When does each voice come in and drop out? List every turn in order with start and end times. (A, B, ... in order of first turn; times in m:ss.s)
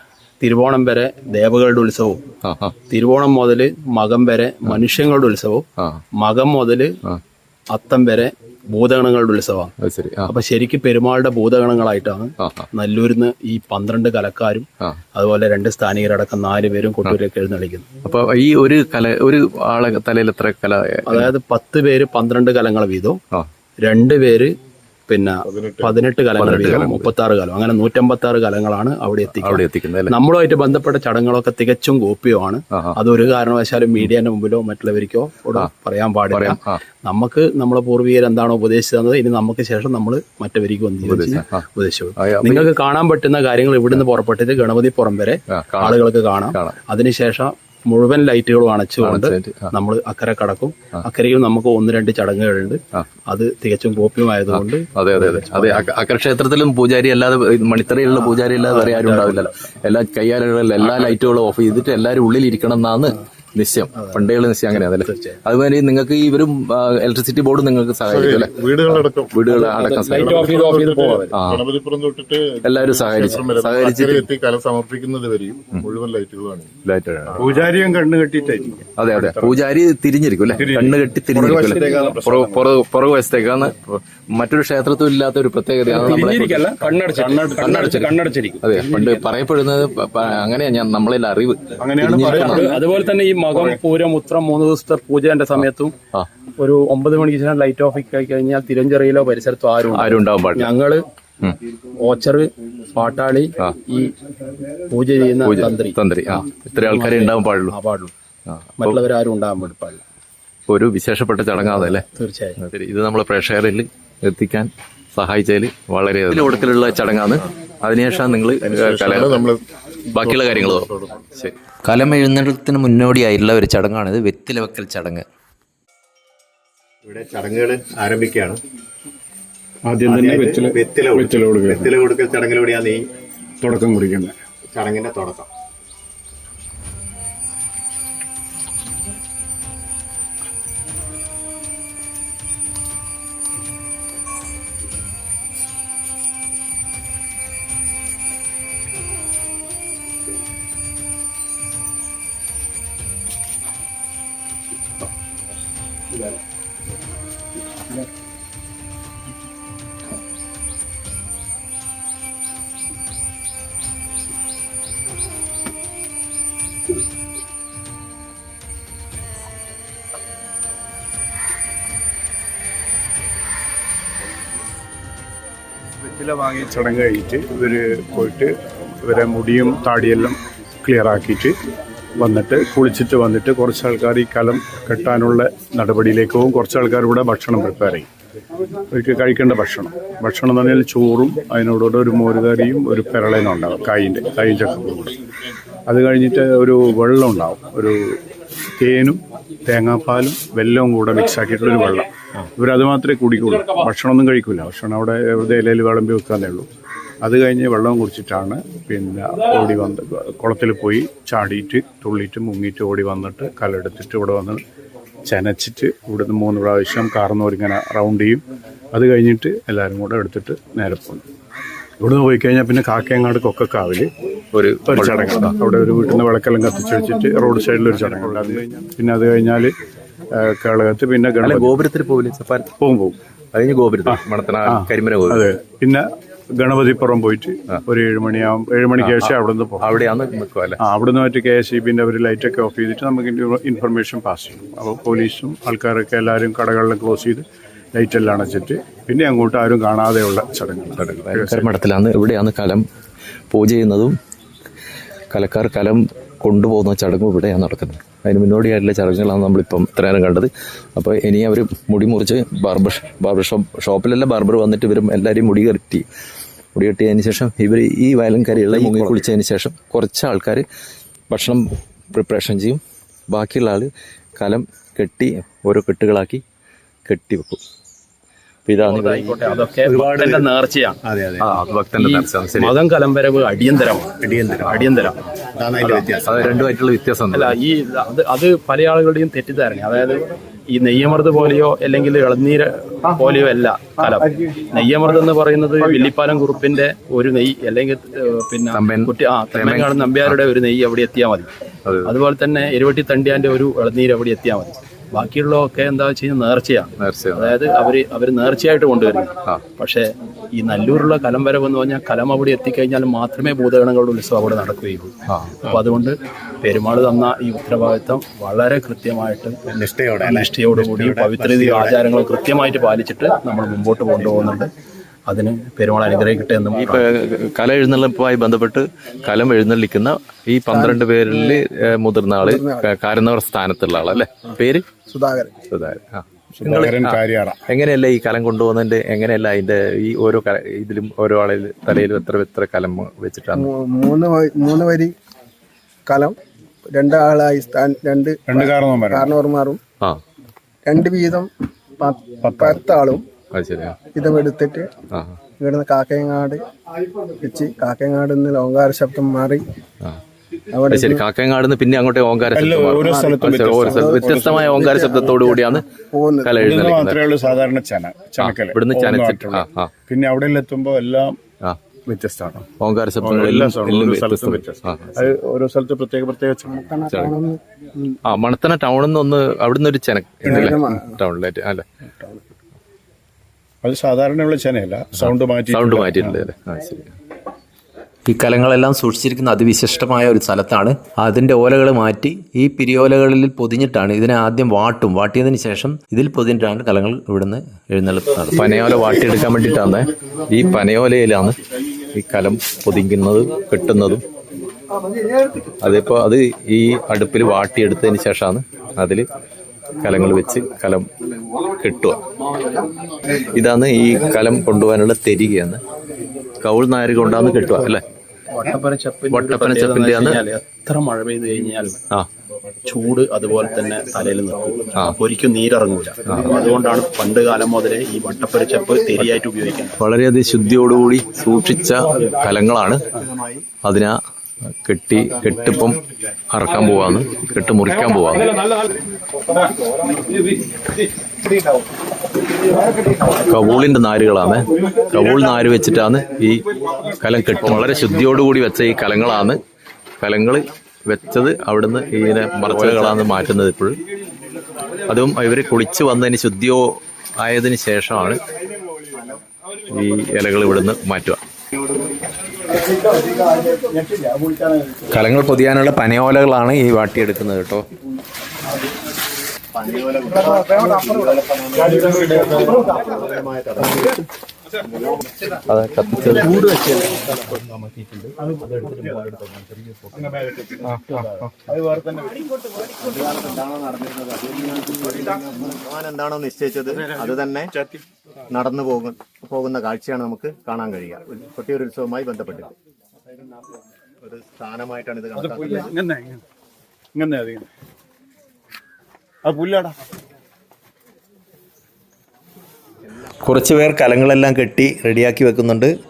0:00.4-0:02.3 A
0:02.4-0:02.8 B
0:02.9-0:05.7 A
0:06.2-0:07.0 A
0:07.7-0:09.7 A
0:09.8-0:10.3 B
0:10.3-0:17.9 A
0:12.4-0:12.7 B
0:18.0-0:21.3 B
0:21.1-0:23.2 A
0:23.8-0:24.6 A
0:25.1-0:55.9 A
0:25.4-0:26.0 C
0:26.4-0:27.1 B
0:29.3-0:30.2 B
0:32.7-0:33.0 B
0:36.3-0:36.8 B
0:41.0-0:41.7 B
0:42.2-0:42.7 B
0:45.5-0:46.0 B
0:46.5-0:46.8 B
0:49.0-0:49.7 B
0:54.5-1:10.6 B
0:58.2-0:59.6 A
1:04.0-1:05.4 A
1:08.1-1:16.7 C
1:09.6-1:11.3 A
1:11.3-1:11.7 B
1:12.6-1:14.3 B
1:16.8-1:17.4 B
1:17.4-1:19.7 D
1:19.0-1:32.8 B
1:20.6-1:22.7 D
1:21.4-1:22.2 A
1:25.9-1:29.3 A
1:27.6-1:28.0 D
1:31.8-1:32.9 D
1:32.2-1:36.0 A
1:33.5-1:33.8 D
1:35.6-1:36.3 B
1:36.6-1:41.0 A
1:39.9-1:40.7 B
1:42.0-1:44.2 A
1:44.9-1:48.1 A
1:45.4-1:47.8 B
1:48.5-1:49.0 B
1:48.8-1:50.0 A
1:50.7-1:52.1 B
1:51.8-1:52.6 A
1:52.6-1:59.5 B
1:58.6-2:01.3 C
2:00.1-2:01.6 B
2:01.9-2:05.2 E
2:07.0-2:08.6 F
2:09.9-2:12.0 D
2:10.0-2:13.1 F
2:13.6-2:14.4 D
2:14.7-2:15.5 F
2:56.0-3:01.6 D
3:02.2-3:08.1 D
3:08.9-3:15.2 D
3:15.9-3:18.2 D
3:18.8-3:26.7 D
3:27.2-3:34.6 D
3:35.3-3:38.4 D
3:38.9-3:41.2 D
3:42.0-3:44.1 D
3:44.5-3:45.5 B
3:44.9-3:49.7 D
3:50.3-3:51.8 D
3:51.4-3:52.7 B
3:52.8-3:53.2 D
3:53.5-3:55.5 B
3:54.1-4:00.0 D
3:59.0-4:00.8 B
4:00.8-4:11.7 D
4:11.0-4:12.8 B
4:13.5-4:14.2 B
4:15.3-4:26.0 B
4:26.8-4:30.7 B
4:31.3-4:36.4 B
4:37.1-4:37.6 B
4:38.7-4:39.4 B
4:38.8-4:41.0 A
4:41.0-4:41.5 F
4:41.4-4:42.7 B
4:42.0-4:45.2 A
4:44.2-4:44.9 F
4:45.6-4:46.6 F
4:45.8-4:46.2 A
4:46.2-4:47.6 B
4:47.3-5:01.5 A
4:54.0-4:54.7 D
4:58.7-5:00.4 B
5:01.9-5:02.1 B
5:02.0-5:24.7 A
5:07.0-5:07.6 B
5:15.3-5:15.6 B
5:19.7-5:22.0 F
5:25.3-5:27.0 A
5:26.8-5:34.9 B
5:30.7-5:31.6 G
5:32.4-5:32.9 G
5:35.1-5:35.6 G
5:35.7-5:43.7 B
5:36.6-5:37.6 D
5:43.5-5:45.1 G
5:46.1-5:46.4 G
5:46.9-5:49.8 G
5:48.5-5:49.3 D
5:50.9-5:53.3 G
5:52.5-5:52.8 D
5:53.5-5:54.0 B
5:54.1-5:54.9 G
5:55.6-5:56.6 G
5:57.4-5:59.7 G
6:00.7-6:01.2 G
6:00.9-6:05.8 B
6:02.5-6:04.9 D
6:03.0-6:06.6 G
6:06.4-6:07.2 B
6:06.6-6:11.4 D
6:08.4-6:09.9 B
6:12.1-6:12.7 D
6:12.8-6:15.3 B
6:13.2-6:17.0 D
6:16.7-6:17.6 G
6:17.1-6:17.4 B
6:18.2-6:21.9 B
6:20.4-6:21.2 G
6:23.8-6:26.4 D
6:25.2-6:27.2 B
6:28.3-6:38.7 E
6:38.5-6:44.2 B
6:45.8-6:49.3 B
6:50.0-6:51.1 B
6:51.8-6:52.2 B
6:53.4-6:55.8 B
6:56.6-6:58.0 B
6:58.5-7:02.0 A
6:59.3-7:00.4 B
7:02.8-7:10.0 A
7:06.3-7:06.6 B
7:10.0-7:13.0 B
7:13.2-7:13.6 F
7:13.8-7:14.2 B
7:14.8-7:18.5 B
7:23.4-7:26.7 B
7:27.2-7:29.6 B
7:30.2-7:34.0 B
7:32.7-7:33.2 E
7:35.1-7:38.4 B
7:39.1-7:39.4 F
7:39.9-7:41.4 B
7:43.0-7:45.0 D
7:45.1-7:47.9 E
7:49.7-7:54.2 F
7:52.0-7:52.7 D
7:55.7-7:56.6 B
7:56.6-7:57.6 A
7:58.4-7:59.2 D
7:58.9-7:59.7 F
8:00.2-8:02.4 D
8:03.0-8:07.8 F
8:08.5-8:12.7 F
8:14.2-8:15.9 F
8:15.4-8:16.4 D
8:17.2-8:17.7 D
8:19.4-8:20.0 D
8:23.4-8:25.9 E